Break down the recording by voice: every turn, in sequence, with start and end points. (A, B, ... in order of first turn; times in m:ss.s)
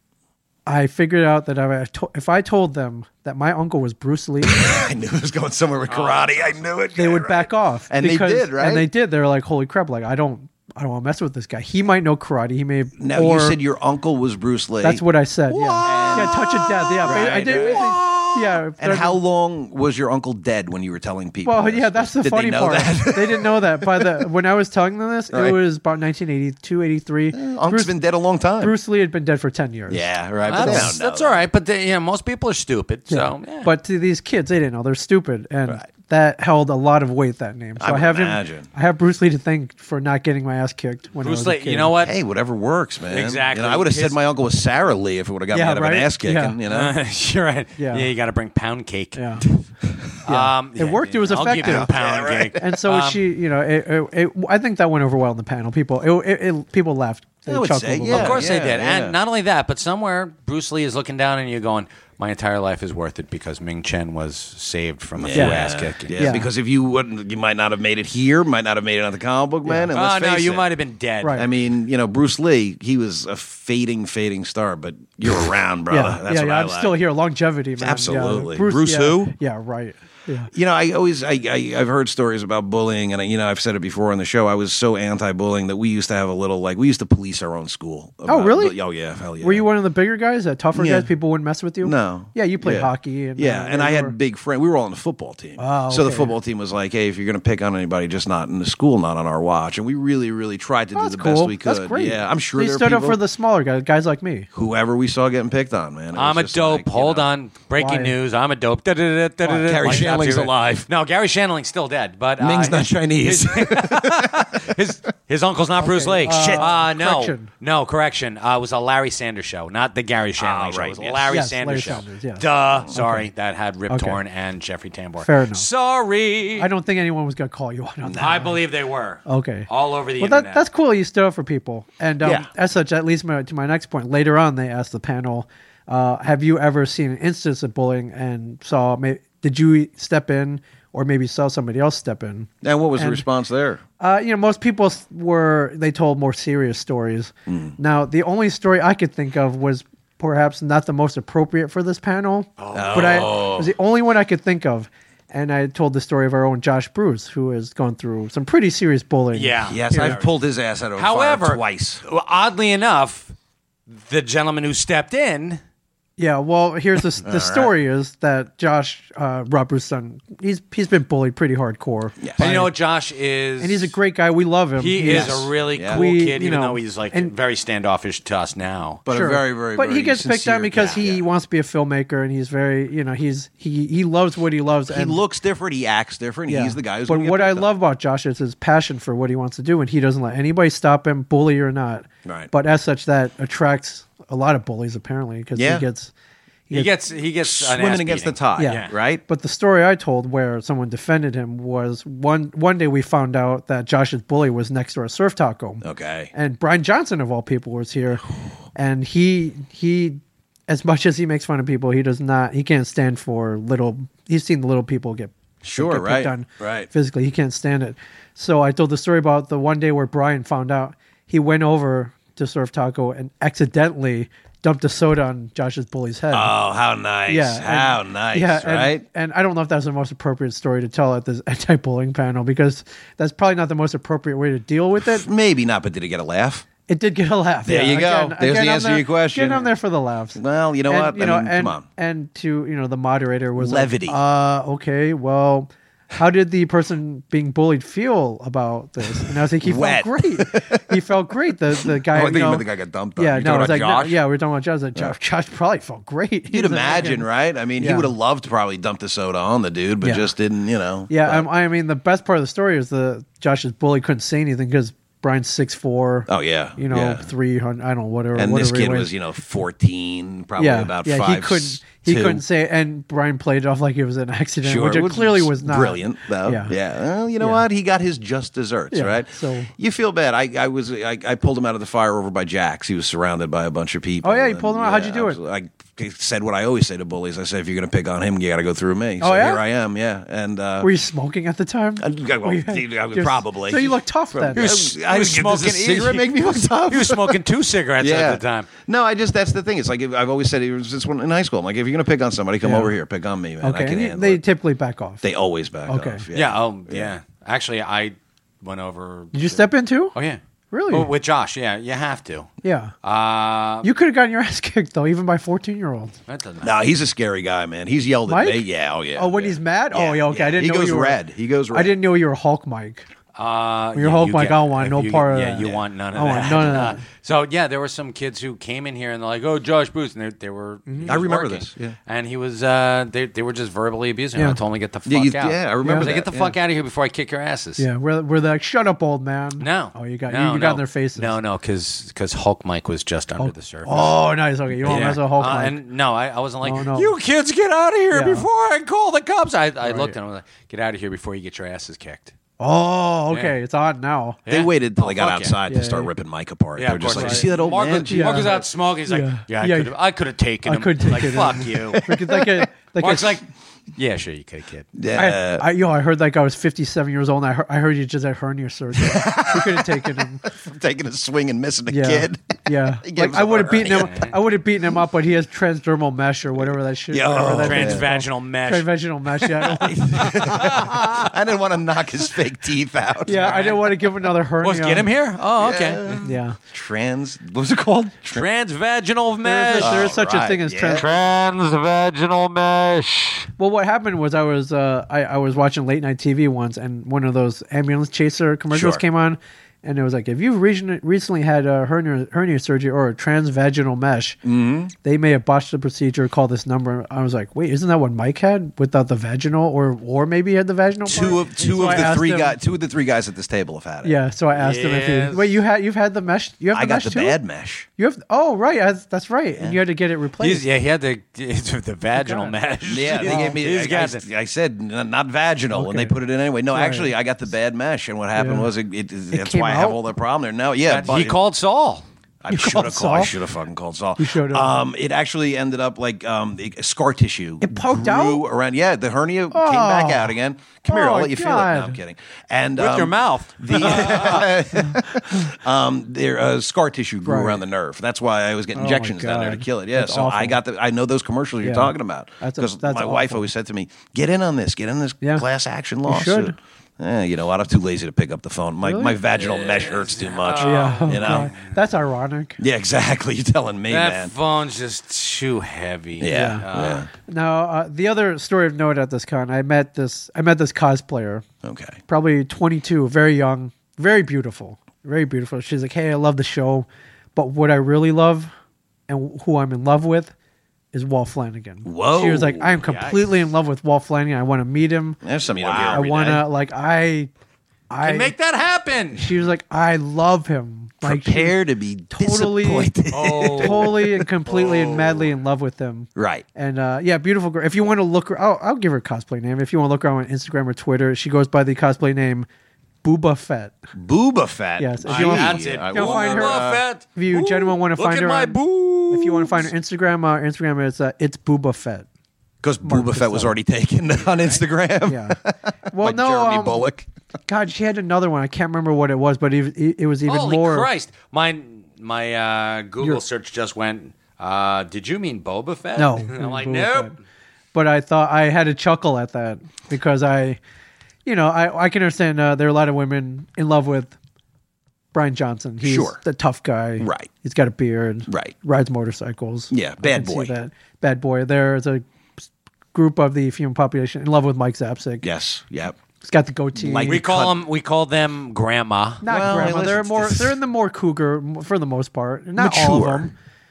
0:00.6-0:04.8 A
0:04.4-0:08.9 B
0:05.9-0:06.6 C
0:07.0-0:13.6 A
0:13.0-0:24.2 B
0:14.8-0:19.2 A
0:15.7-0:16.3 C
0:17.0-0:17.8 C
0:21.4-0:28.0 A
0:25.3-0:25.6 B
0:27.3-0:28.7 B
0:28.6-0:30.9 A
0:29.9-0:31.4 B
0:30.4-0:33.7 C
0:33.1-0:41.9 A
0:37.8-0:38.7 B
0:41.2-0:42.1 C
0:42.0-0:46.9 B
0:43.1-0:44.2 C
0:45.5-0:46.5 A
0:46.7-0:53.2 C
0:47.8-0:48.1 A
0:49.1-0:49.4 A
0:50.2-0:51.9 A
0:51.4-0:52.6 B
0:52.6-0:58.4 A
0:57.5-0:59.2 B
0:58.1-1:06.1 C
1:05.2-1:10.6 B
1:05.3-1:05.6 A
1:06.2-1:06.5 A
1:09.6-1:09.9 A
1:09.9-1:11.4 C
1:11.2-1:11.5 A
1:11.3-1:17.0 B
1:15.9-1:20.5 A
1:17.8-1:19.3 B
1:20.5-1:29.6 B
1:28.2-1:28.8 A
1:29.4-1:34.1 A
1:30.7-1:31.1 B
1:31.8-1:43.2 B
1:35.6-1:36.3 A
1:40.9-1:44.5 A
1:44.5-1:47.3 B
1:46.1-2:06.7 C
1:47.8-1:48.1 A
1:49.4-1:50.2 A
1:49.6-1:50.9 B
1:52.4-1:54.7 B
1:55.8-1:57.5 A
1:56.2-1:56.8 B
2:00.4-2:01.3 B
2:01.3-2:03.3 A
2:03.9-2:04.2 A
2:05.2-2:05.7 A
2:06.6-2:08.6 A
2:08.0-2:08.4 B
2:08.2-2:10.6 C
2:09.2-2:09.7 A
2:10.2-2:23.2 A
2:12.2-2:12.5 B
2:22.6-2:23.8 B
2:24.0-2:40.2 A
2:27.5-2:27.7 B
2:32.6-2:33.4 C
2:32.7-2:33.7 B
2:39.3-2:40.3 C
2:39.7-2:42.0 B
2:41.0-2:43.3 C
2:43.9-2:45.6 C
2:46.2-2:52.7 A
2:47.2-2:47.7 B
2:52.2-2:52.5 B
2:52.4-2:53.9 C
2:53.6-2:57.3 A
2:54.8-2:59.0 C
2:55.0-2:56.0 B
2:59.0-3:01.2 B
2:59.1-3:05.2 A
3:04.9-3:07.7 B
3:06.5-3:16.1 A
3:12.2-3:12.5 B
3:15.5-3:15.8 B
3:16.7-3:18.9 C
3:17.4-3:19.2 B
3:18.6-3:46.5 A
3:25.8-3:26.3 B
3:35.6-3:36.9 B
3:46.3-3:49.0 B
3:47.3-3:55.3 A
3:55.0-3:56.7 B
3:56.9-4:12.6 A
3:57.6-3:59.7 B
4:00.3-4:01.8 B
4:03.6-4:04.2 B
4:09.1-4:11.0 B
4:11.8-4:14.2 B
4:13.2-4:17.3 A
4:16.5-4:21.5 B
4:17.8-4:18.1 A
4:20.0-4:20.3 A
4:21.1-4:29.1 A
4:26.3-4:27.3 B
4:28.3-4:32.4 B
4:30.6-4:36.7 A
4:34.6-4:50.9 B
4:37.4-4:37.6 A
4:38.9-4:39.7 A
4:44.2-4:45.4 A
4:49.2-4:49.6 A
4:50.8-4:54.7 A
4:52.0-4:57.4 B
4:54.5-4:58.7 C
4:58.0-5:04.4 B
5:02.6-5:02.9 A
5:03.6-5:05.2 A
5:05.2-5:07.1 B
5:05.9-5:06.2 A
5:06.3-5:12.5 C
5:09.3-5:10.1 A
5:10.7-5:11.1 A
5:12.6-5:12.9 A
5:13.0-5:13.9 C
5:13.8-5:16.2 A
5:16.3-5:16.7 C
5:16.6-5:21.9 B
5:18.3-5:21.2 A
5:21.7-5:23.0 A
5:23.3-5:37.8 C
5:23.9-5:27.0 A
5:30.9-5:31.1 A
5:31.0-5:31.9 B
5:35.0-5:36.6 B
5:35.8-5:36.1 A
5:37.8-5:41.3 A
5:39.6-5:44.2 C
5:43.4-5:45.8 A
5:44.8-5:52.3 C
5:44.9-5:45.1 B
5:46.6-5:47.1 A
5:48.1-5:48.4 A
5:49.8-5:50.1 A
5:52.6-5:54.4 A
5:54.5-5:55.6 C
5:54.5-5:58.6 B
5:55.7-5:56.1 A
5:56.8-6:02.0 C
5:57.1-5:57.5 A
5:58.1-5:59.9 A
6:00.6-6:03.3 A
6:01.9-6:02.7 B
6:03.0-6:04.9 C
6:04.9-6:05.6 B
6:05.1-6:10.4 A
6:09.0-6:14.1 B
6:11.9-6:21.2 A
6:13.9-6:14.3 C
6:17.1-6:18.1 B
6:17.4-6:18.9 C
6:19.6-6:23.4 B
6:23.2-6:25.1 A
6:23.3-6:26.3 C
6:25.5-6:28.5 B
6:26.2-6:26.6 A
6:28.3-6:30.1 C
6:29.4-6:31.1 A
6:29.8-6:31.1 B
6:31.0-6:33.5 C
6:33.6-6:44.4 A
6:38.7-6:39.0 B
6:44.4-6:44.9 B
6:45.0-6:52.6 A
6:51.0-6:54.2 B
6:51.2-6:52.1 C
6:54.0-6:57.4 A
6:54.5-6:55.6 C
6:56.7-6:57.9 B
6:58.0-7:00.6 A
6:59.5-6:59.8 B
7:00.4-7:04.2 C
7:02.2-7:02.5 A
7:02.9-7:11.4 B
7:03.3-7:03.6 A
7:05.7-7:06.1 A
7:06.7-7:07.1 A
7:08.4-7:08.7 A
7:09.3-7:10.0 A
7:10.8-7:12.0 C
7:12.4-7:41.5 B
7:12.5-7:13.3 A
7:14.2-7:14.7 A
7:17.6-7:18.4 A
7:19.5-7:20.3 A
7:20.8-7:22.0 A
7:22.8-7:24.5 C
7:23.8-7:25.1 A
7:27.2-7:27.6 A
7:28.7-7:30.6 A
7:31.6-7:33.4 A
7:36.0-7:36.5 A
7:38.8-7:39.2 A
7:39.3-7:41.7 C
7:40.6-7:42.6 A
7:42.6-7:44.3 B
7:43.9-7:47.0 C
7:46.2-7:47.1 B
7:46.3-7:46.6 A
7:47.2-7:51.4 A
7:51.6-7:52.0 B
7:52.1-7:58.5 A
7:59.1-8:00.3 A
8:00.9-8:05.2 A
8:01.8-8:02.8 B
8:02.8-8:03.2 C
8:05.2-8:06.4 B
8:05.6-8:06.1 C
8:05.8-8:07.3 A
8:07.9-8:08.3 A
8:08.0-8:09.3 C
8:09.1-8:11.6 A
8:11.0-8:14.2 B
8:12.1-8:12.9 A
8:13.1-8:15.2 C
8:13.6-8:22.5 A
8:16.1-8:16.4 B
8:23.0-8:23.9 A
8:23.9-8:26.8 B
8:24.8-8:28.6 A
8:25.1-8:29.7 C
8:29.1-8:32.1 A
8:32.6-8:37.1 B
8:32.8-8:33.6 A
8:34.2-8:34.6 C
8:35.1-8:35.4 A
8:35.9-8:36.9 A
8:37.5-8:40.9 A
8:40.2-8:47.2 C
8:46.0-8:47.1 A
8:47.7-8:50.6 A
8:51.2-8:54.1 A
8:55.1-9:05.3 A
8:55.8-8:56.2 B
8:57.0-8:57.3 B
8:58.3-8:58.5 B
8:59.7-9:00.5 B
9:05.2-9:06.0 B
9:06.2-9:07.2 A
9:06.7-9:07.6 B
9:07.0-9:09.2 C
9:09.2-9:10.6 B
9:09.2-9:13.3 A
9:12.6-9:13.3 B